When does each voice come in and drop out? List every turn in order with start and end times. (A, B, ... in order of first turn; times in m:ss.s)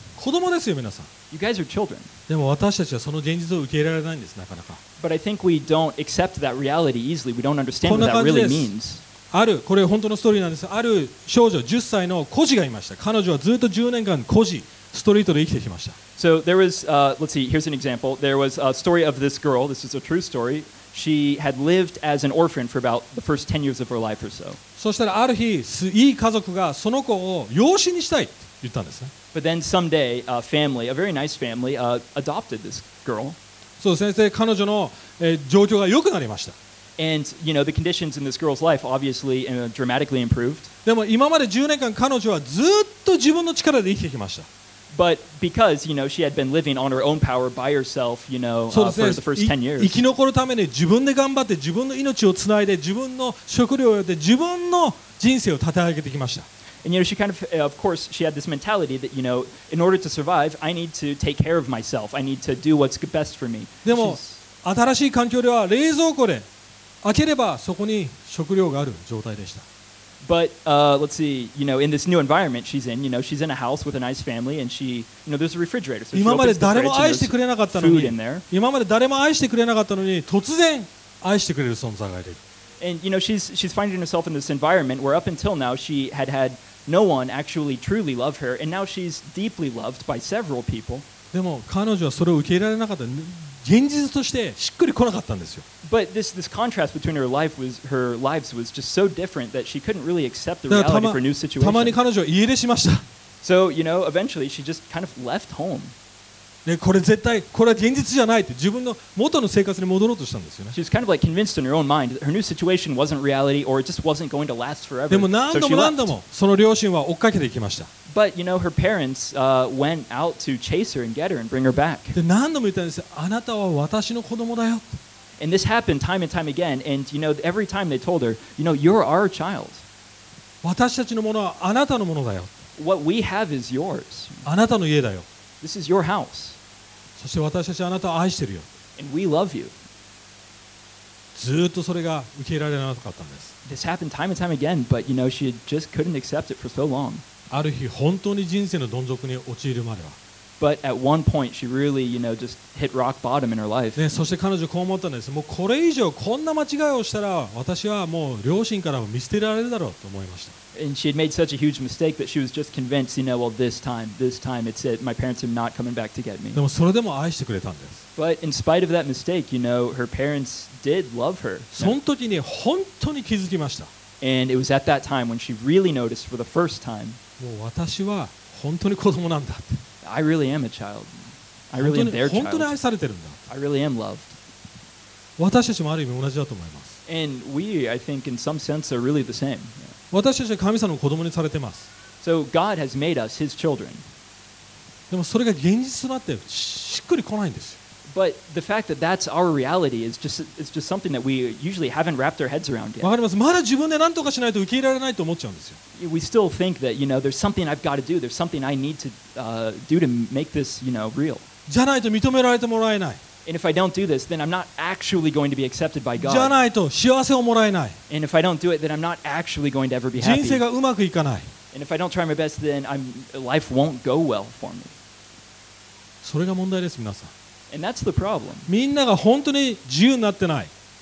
0:00.2-0:01.1 A
0:01.3-0:02.1 B
0:02.3-0:04.8 A
0:05.0-0:09.0 B
0:07.8-0:08.7 A
0:09.3-0:16.0 A
0:16.2-0:24.6 B
0:24.8-0:29.1 A
0:29.3-0:33.4 B
0:33.8-0:36.6 A
0:37.0-0:40.7 B
0:40.8-0:44.5 A
0:44.9-0:50.0 B
0:48.7-0:56.5 A
0:56.8-1:04.4 B
1:03.8-1:06.5 A
1:07.0-1:09.6 A
1:10.2-1:18.4 B
1:16.1-1:22.4 A
1:22.8-1:31.0 B
1:31.3-1:35.6 A
1:35.8-1:42.0 B
1:40.7-1:43.0 A
1:43.4-1:46.0 B
1:46.6-1:50.8 A
1:50.7-1:56.1 B
1:55.1-1:57.9 A
1:58.1-2:02.2 B
2:02.1-2:05.0 A
2:05.4-2:09.8 B
2:10.6-2:12.5 A
2:12.8-2:14.4 B
2:14.4-2:15.3 A
2:15.6-2:16.6 B
2:17.2-2:18.7 A
2:19.0-2:19.7 B
2:21.4-2:23.5 A
2:23.6-2:27.2 B
2:27.5-2:30.2 A
2:30.6-2:34.1 B
2:34.0-2:40.6 A
2:40.8-2:46.6 B
2:46.6-2:48.0 A
2:48.2-2:52.0 B
2:51.7-2:53.9 A
2:54.2-2:57.2 B
2:57.4-2:59.8 A
3:00.0-3:02.7 B
3:01.8-3:03.4 A
3:03.5-3:04.4 B
3:05.4-3:07.0 A
3:07.1-3:09.9 B
3:10.1-3:11.9 A
3:12.2-3:14.0 B
3:15.1-3:17.8 A
3:18.1-3:23.1 B
3:23.0-3:25.8 A
3:26.0-3:31.4 B
3:31.7-3:33.2 A
3:33.5-3:36.6 B
3:36.2-3:38.0 A
3:38.1-3:40.6 B
3:40.2-3:41.5 A
3:41.7-3:45.0 B
3:46.2-3:47.3 A
3:47.7-3:48.7 B
3:48.7-3:50.7 A